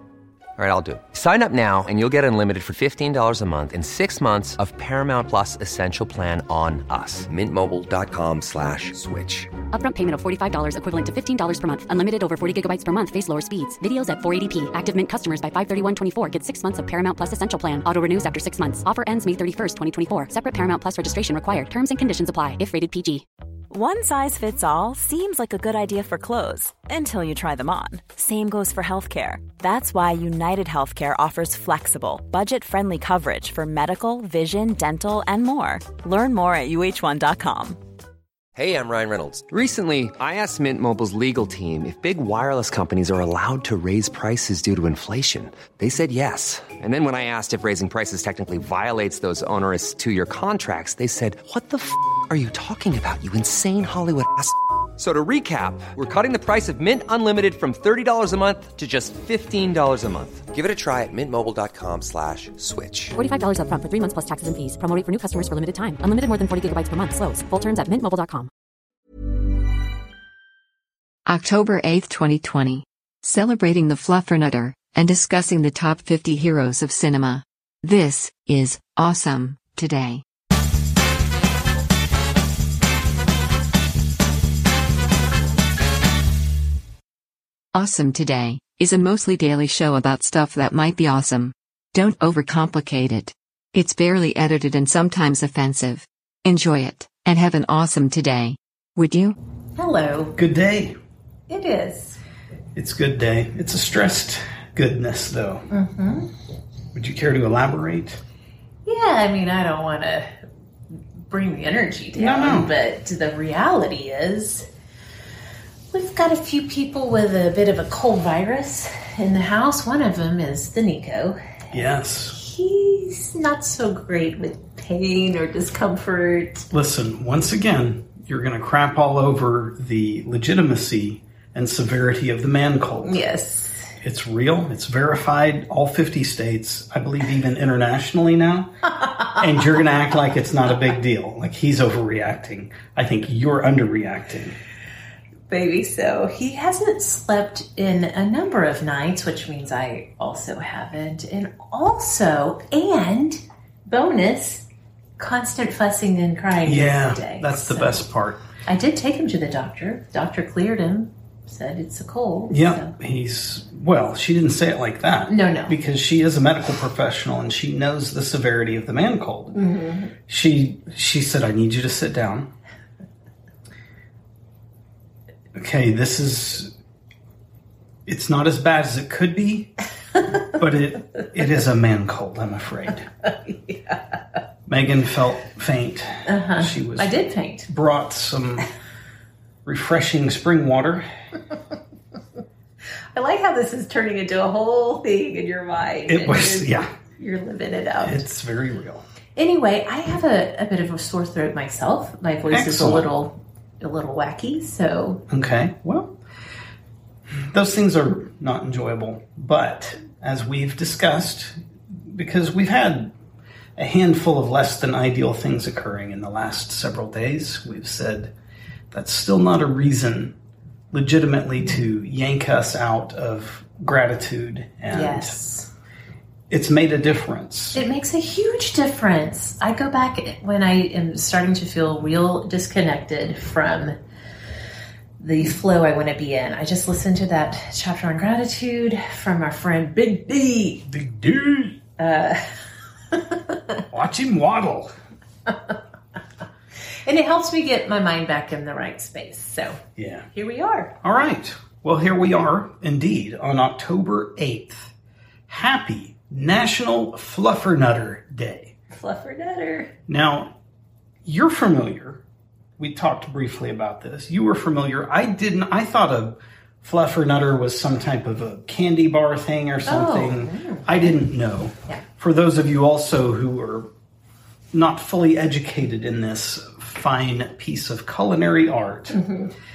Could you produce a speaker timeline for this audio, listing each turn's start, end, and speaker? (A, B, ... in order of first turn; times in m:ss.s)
0:00.6-0:09.5 A
0:09.7-0:23.2 B
0:23.7-0:37.8 C
0:38.6-1:03.2 A
1:03.2-1:08.5 B
1:11.3-1:20.2 D
1:27.7-1:39.4 D
1:39.8-1:40.4 E
1:40.4-1:41.0 F
1:41.5-1:42.2 E
1:42.8-1:45.7 F
1:45.7-1:46.3 E
1:46.9-1:48.2 F
1:48.8-1:50.4 E
1:51.3-1:54.7 E
1:52.2-1:52.7 F
1:55.9-2:01.4 E
2:01.7-2:02.4 F
2:02.3-2:06.7 E
2:06.7-2:13.2 F
2:13.0-2:13.9 E
2:14.0-2:18.7 F
2:19.4-2:24.6 F
2:25.5-2:34.7 E
2:35.2-2:38.0 E
2:36.6-2:38.4 F
2:38.7-2:42.9 E
2:42.5-2:49.6 F
2:45.3-2:45.8 E
2:49.5-2:50.1 E
2:50.3-2:52.5 F
2:55.5-2:56.7 F
2:58.1-2:59.7 F
3:00.5-3:03.1 F
3:03.5-3:04.0 E
3:04.7-3:08.7 F
3:06.3-3:07.7 E
3:09.6-3:11.1 F
3:13.1-3:18.2 E
3:16.1-3:16.9 F
3:18.0-3:19.0 F
3:19.4-3:25.2 E
3:22.5-3:23.1 F
3:25.3-3:26.2 F
3:27.3-3:31.6 F
3:32.1-3:33.1 F
3:33.8-3:38.3 F
3:38.9-3:40.4 F
3:40.9-3:45.4 F
3:44.9-3:45.7 E
3:46.5-3:47.8 F
3:47.7-3:54.0 E
3:55.2-4:00.9 E
4:00.9-4:01.8 F
4:02.0-4:02.5 E
4:03.1-4:03.6 E
4:03.9-4:04.9 F
4:07.0-4:09.8 E
4:10.0-4:10.3 F
4:10.3-4:11.0 E
4:11.0-4:14.9 F
4:15.5-4:18.8 F
4:18.9-4:19.9 E
4:20.1-4:20.5 F
4:21.2-4:22.2 F
4:22.8-4:33.9 F
4:29.9-4:31.2 E
4:34.7-4:39.2 F
4:39.1-4:39.5 E